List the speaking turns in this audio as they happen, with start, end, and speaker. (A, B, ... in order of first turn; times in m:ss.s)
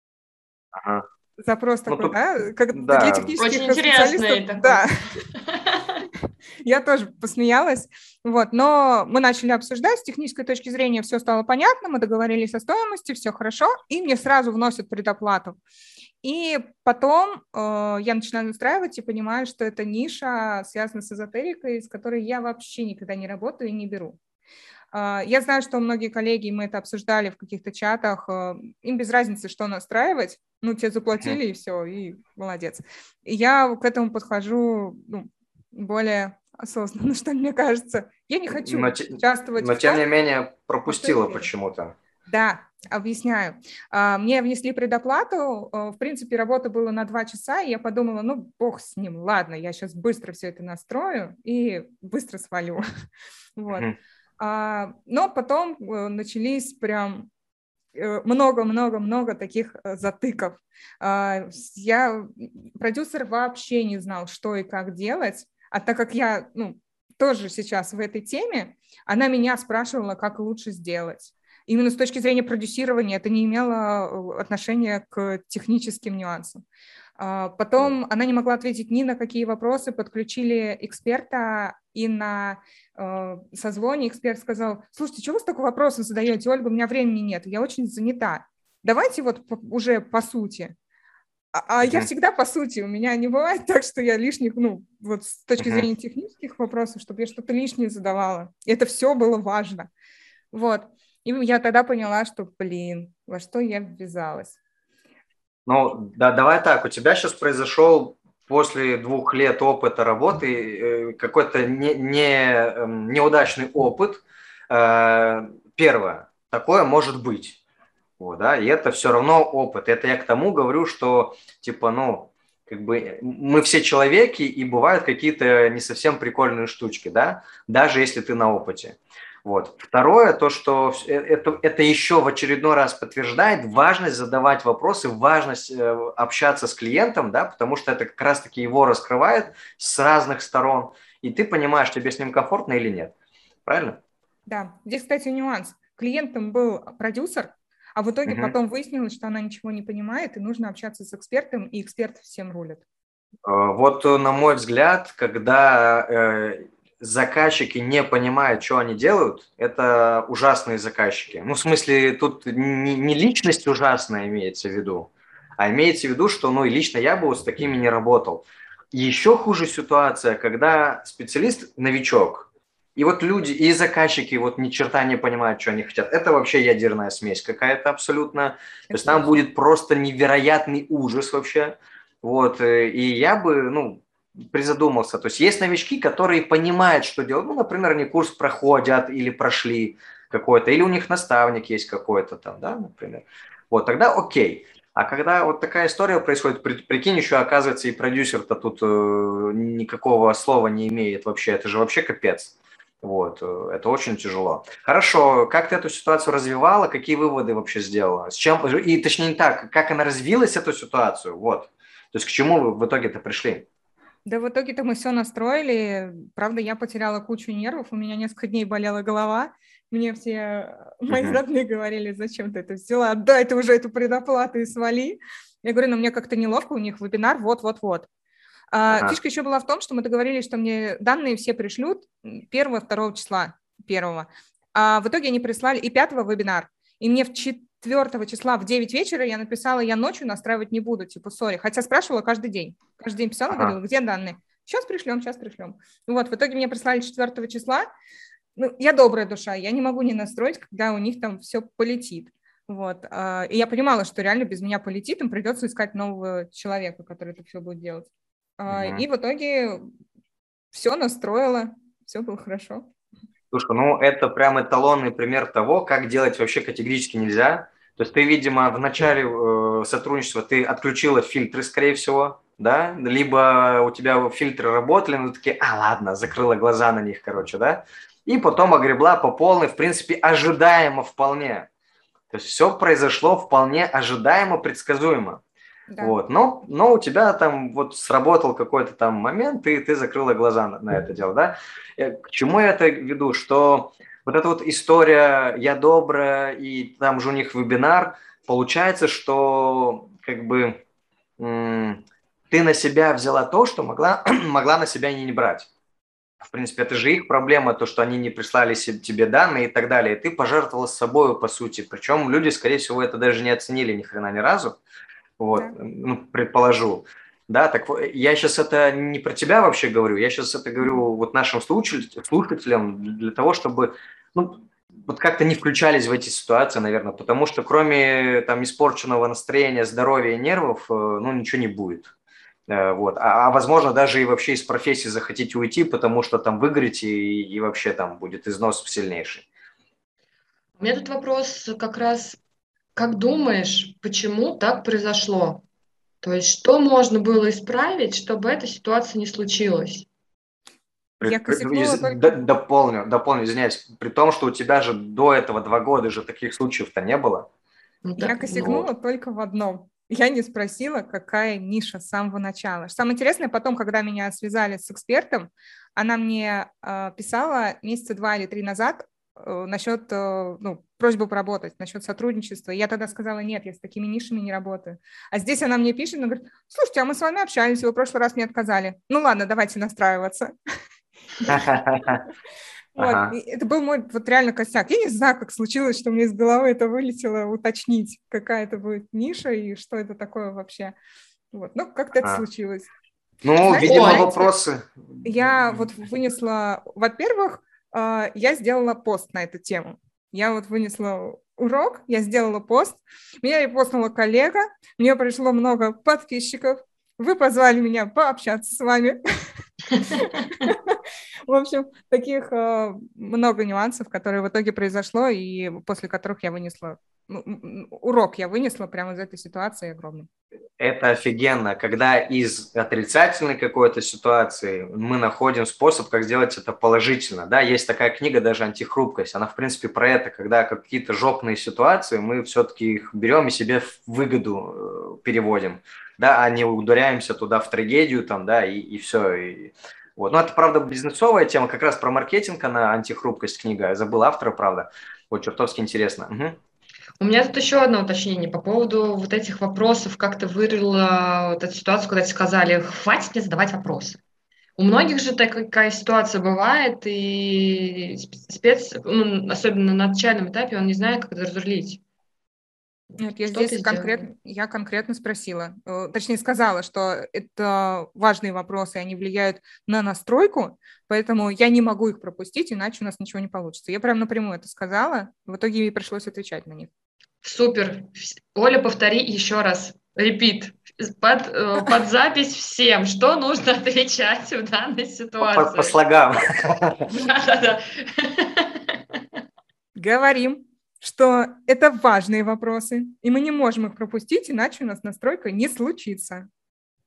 0:00.7-0:01.0 A
0:01.4-0:04.9 B
0:01.9-0:02.2 A
0:02.7-0:03.4 A
0:03.4-0:06.0 C
0:06.6-0:15.6 B
0:16.2-0:24.2 B
0:24.9-0:40.0 B
0:38.5-0:42.0 A
0:40.9-0:41.5 B
0:42.3-0:52.8 B
0:53.6-0:57.3 B
0:58.0-1:16.6 B
1:17.2-1:30.7 B
1:31.5-1:39.9 B
1:31.8-1:32.1 A
1:35.6-1:35.9 A
1:40.5-1:44.6 B
1:45.7-1:57.6 A
1:58.2-2:23.1 A
2:23.7-2:24.0 A
2:24.5-2:32.8 B
2:28.3-2:28.5 A
2:33.5-3:33.7 A
2:58.9-2:59.4 B
3:34.3-3:48.1 B
3:41.1-3:41.4 A
3:48.7-4:07.9 B
3:48.9-3:49.2 A
4:03.5-4:03.8 A
4:08.6-4:19.9 B
4:18.7-4:19.1 A
4:20.7-4:22.9 B
4:23.5-4:41.7 A
4:42.3-4:45.4 A
4:45.9-4:46.2 B
4:46.0-5:00.8 A
5:01.4-5:05.7 A
5:06.5-5:14.8 A
5:15.4-5:32.1 A
5:32.7-5:39.5 A
5:40.8-5:42.4 C
5:43.0-5:45.6 C
5:46.2-5:50.1 C
5:51.2-5:57.5 A
5:51.2-5:52.4 B
5:58.0-5:58.8 C
5:58.2-6:20.5 B
5:58.6-5:58.9 A
6:21.4-6:21.6 B
6:21.5-6:22.2 A
6:23.0-6:31.0 B
6:23.0-6:23.4 A
6:31.5-6:32.9 B
6:33.4-6:35.8 A
6:33.6-6:34.4 B
6:33.8-6:34.5 C
6:35.2-6:49.2 B
6:49.9-7:00.3 B
7:00.8-7:26.6 A
7:27.2-7:34.2 C
7:34.8-7:42.0 C
7:43.2-7:56.9 B
7:43.4-7:44.3 C
7:57.4-8:06.0 C
8:05.4-8:07.1 A
8:07.1-8:09.0 C
8:10.0-8:16.5 B